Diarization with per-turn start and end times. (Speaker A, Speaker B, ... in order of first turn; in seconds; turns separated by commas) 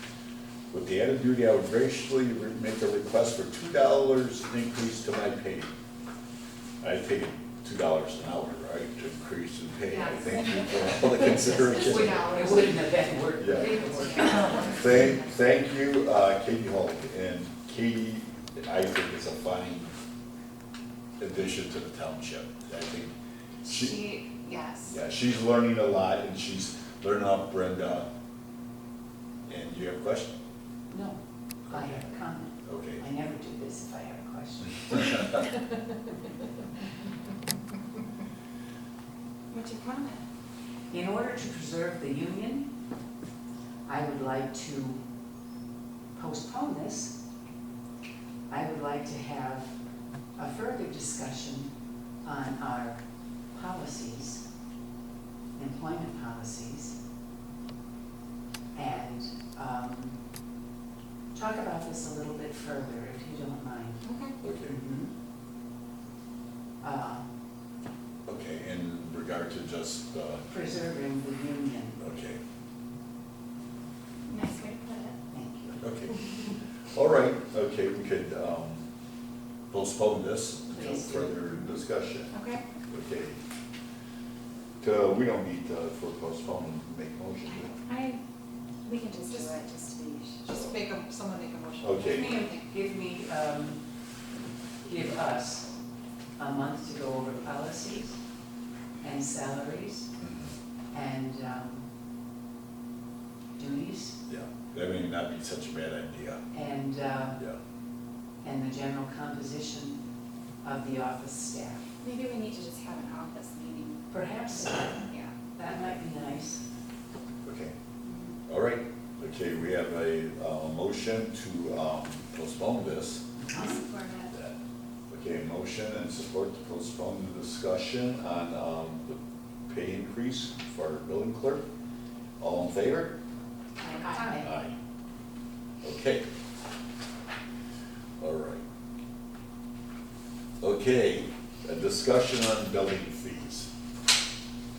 Speaker A: 0.7-5.7, Speaker A: 6.8-12.6, Speaker B: 9.9-10.4, Speaker C: 11.4-14.7, Speaker B: 11.5-12.8, Speaker A: 13.4-13.8, Speaker B: 13.9-15.2, Speaker D: 13.9-14.2, Speaker A: 14.6-19.9, Speaker A: 21.2-23.1, Speaker A: 23.6-24.0, Speaker B: 23.8-24.9, Speaker A: 24.8-28.1, Speaker A: 29.5-30.4, Speaker C: 30.9-31.2, Speaker A: 31.7-32.1, Speaker C: 31.7-35.3, Speaker A: 32.6-33.0, Speaker B: 39.5-40.2, Speaker C: 40.9-42.7, Speaker C: 43.9-45.0, Speaker C: 46.1-47.1, Speaker C: 48.5-49.7, Speaker C: 50.4-51.7, Speaker C: 52.2-53.0, Speaker C: 53.5-54.4, Speaker C: 55.5-57.0, Speaker C: 58.7-60.2, Speaker C: 61.3-64.1, Speaker B: 64.0-64.3, Speaker A: 64.4-64.8, Speaker C: 64.7-65.1, Speaker C: 66.8-67.2, Speaker A: 68.2-70.4, Speaker C: 70.5-72.0, Speaker A: 72.0-72.4, Speaker B: 74.3-75.2, Speaker C: 75.3-75.8, Speaker A: 75.8-76.2, Speaker A: 76.9-78.8, Speaker A: 79.7-82.3, Speaker C: 80.7-81.7, Speaker B: 82.3-82.6, Speaker A: 82.9-83.4, Speaker A: 84.8-87.7, Speaker B: 87.8-88.2, Speaker B: 88.8-90.5, Speaker D: 90.4-92.6, Speaker A: 91.8-92.4, Speaker C: 92.0-93.8, Speaker C: 94.9-95.7, Speaker C: 96.4-98.2, Speaker C: 99.0-100.1, Speaker A: 100.2-100.5, Speaker C: 100.9-101.8, Speaker C: 103.6-104.2, Speaker A: 104.3-106.4, Speaker C: 106.5-107.4, Speaker C: 108.4-110.0, Speaker C: 110.6-111.9, Speaker B: 112.0-114.0, Speaker C: 114.1-116.6, Speaker B: 114.8-115.3, Speaker A: 117.4-117.7, Speaker A: 118.5-123.3, Speaker C: 123.4-123.8, Speaker B: 123.5-124.3, Speaker A: 124.2-124.6, Speaker A: 125.1-131.6, Speaker A: 132.4-133.1, Speaker B: 133.8-134.4, Speaker C: 133.8-134.5, Speaker A: 134.4-134.8, Speaker A: 135.8-136.2, Speaker A: 138.2-138.6, Speaker A: 140.6-143.7